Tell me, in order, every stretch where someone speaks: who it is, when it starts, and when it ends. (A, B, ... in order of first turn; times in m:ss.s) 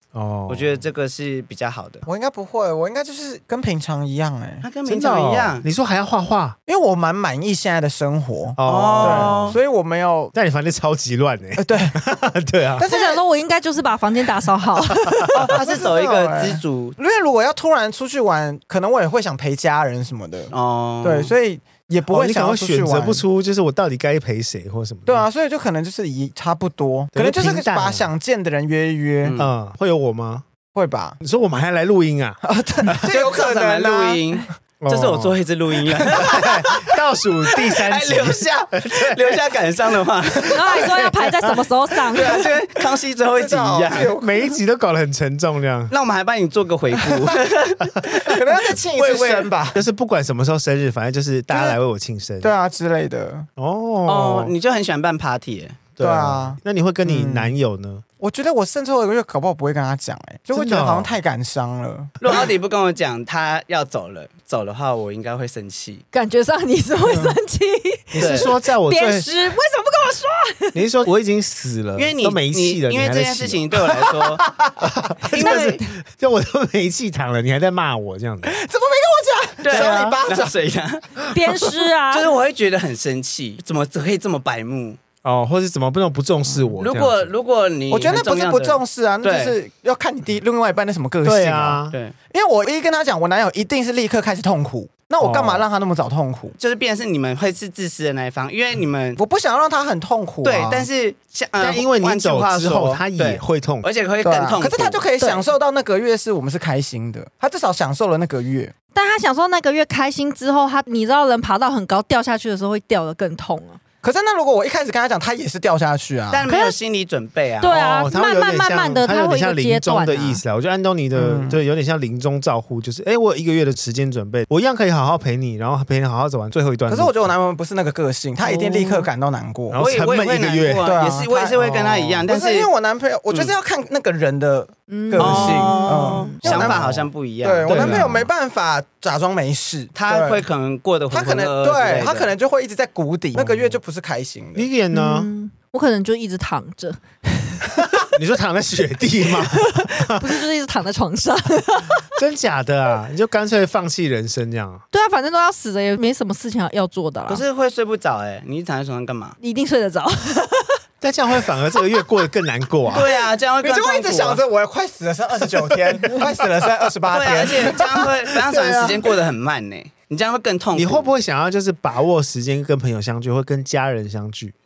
0:00.1-0:00.8 A
0:00.5-0:02.1 B
0:02.0-0:04.6 C
0:04.6-0:05.6 B
0:04.8-0:06.6 A
0:06.6-0:10.3 C
0:08.6-0:09.6 A
0:08.6-0:09.6 B
0:10.3-0:12.9 A
0:11.6-0:12.0 C
0:12.8-0:13.2 C
0:12.8-0:15.3 D
0:15.3-0:17.0 B
0:15.4-0:23.2 C
0:20.5-0:21.3 B
0:22.1-0:25.3 A
0:25.0-0:29.4 C
0:27.1-0:28.1 A
0:29.2-0:29.5 B
0:29.4-0:30.4 A
0:30.7-0:31.2 C
0:31.2-0:33.1 A
0:32.4-0:34.4 C
0:33.1-0:40.6 B
0:34.8-0:35.4 A
0:36.0-0:39.4 A
0:36.2-0:36.5 C
0:40.5-0:41.6 A
0:40.5-0:42.5 D
0:42.1-0:44.1 B
0:43.4-0:44.5 C
0:44.1-0:45.9 A
0:45.9-0:49.5 B
0:48.2-0:49.8 C
0:49.7-0:52.5 A
0:51.5-0:51.8 C
0:52.4-0:53.5 C
0:53.6-0:54.5 A
0:54.0-0:55.8 B
0:56.0-0:58.0 A
0:56.0-0:57.5 C
0:58.2-1:02.1 C
1:00.5-1:01.1 A
1:02.2-1:06.0 B
1:06.1-1:10.8 D
1:08.1-1:09.3 A
1:08.2-1:08.5 B
1:10.7-1:18.5 A
1:12.0-1:14.5 B
1:15.3-1:15.8 B
1:15.3-1:15.8 D
1:18.4-1:20.5 C
1:19.6-1:21.2 B
1:19.7-1:20.2 A
1:21.3-1:22.3 D
1:22.1-1:25.0 B
1:25.2-1:27.3 A
1:26.8-1:29.6 B
1:27.9-1:36.6 C
1:31.2-1:32.0 A
1:35.2-1:35.6 A
1:36.6-1:39.2 B
1:39.2-1:40.9 C
1:40.4-1:45.1 B
1:41.6-1:43.8 A
1:44.2-1:48.7 C
1:48.9-1:53.8 D
1:54.0-1:56.4 C
1:56.3-1:57.8 B
1:56.5-1:56.8 D
1:57.6-2:00.4 D
1:57.7-2:07.3 A
2:01.1-2:01.6 C
2:06.9-2:09.8 C
2:08.4-2:09.1 D
2:09.7-2:11.0 A
2:09.8-2:12.7 B
2:10.8-2:20.4 C
2:14.9-2:16.4 D
2:15.2-2:18.1 B
2:16.4-2:17.1 A
2:17.6-2:18.3 A
2:19.9-2:22.3 B
2:21.1-2:24.7 C
2:23.3-2:23.8 A
2:24.5-2:25.3 A
2:24.9-2:27.6 D
2:28.0-2:30.4 A
2:29.4-2:32.1 D
2:32.1-2:34.8 A
2:34.9-2:37.4 D
2:37.3-2:39.4 B
2:39.4-2:40.8 D
2:41.0-2:43.1 A
2:42.9-2:44.4 B
2:43.6-2:48.0 C
2:47.1-2:51.1 B
2:48.5-2:49.0 A
2:50.7-2:54.5 A